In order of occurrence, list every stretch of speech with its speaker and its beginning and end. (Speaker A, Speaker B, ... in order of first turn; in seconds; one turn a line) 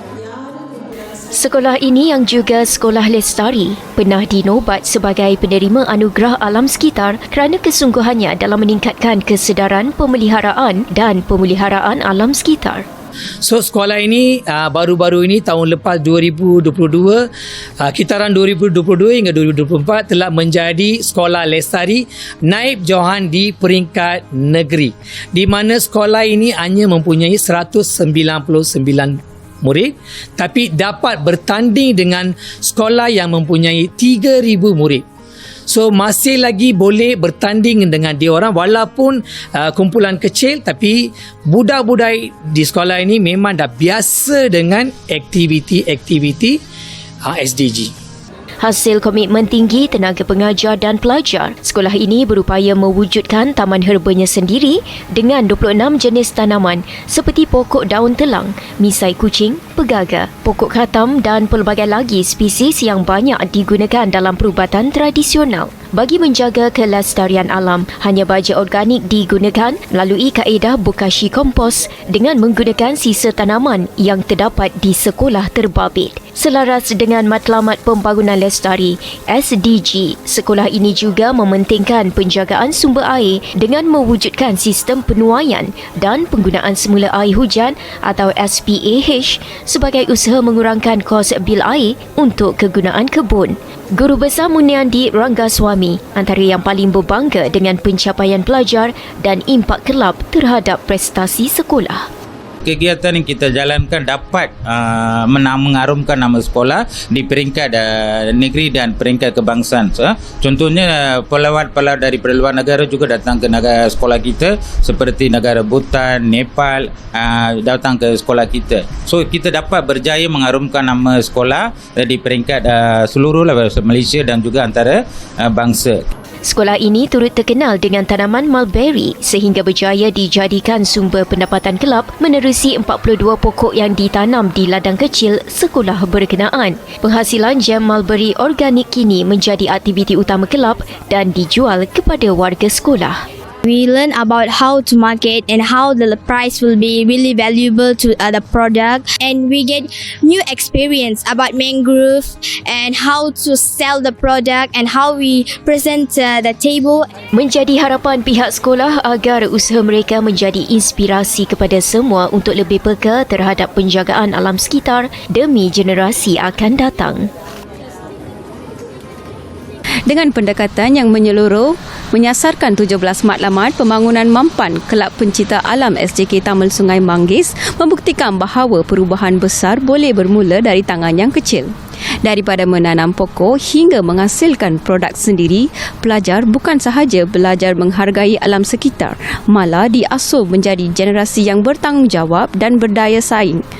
Speaker A: 1.3-12.8
Speaker B: 13.4-17.3
Speaker B: 17.8-35.0
Speaker B: 35.7-46.6
Speaker B: 47.2-47.9
Speaker A: 48.6-102.1
Speaker C: 102.6-126.0
Speaker A: 126.4-143.2
Speaker D: 143.7-157.0
Speaker A: 157.3-167.3
Speaker E: 170.1-181.7
Speaker E: 182.2-193.6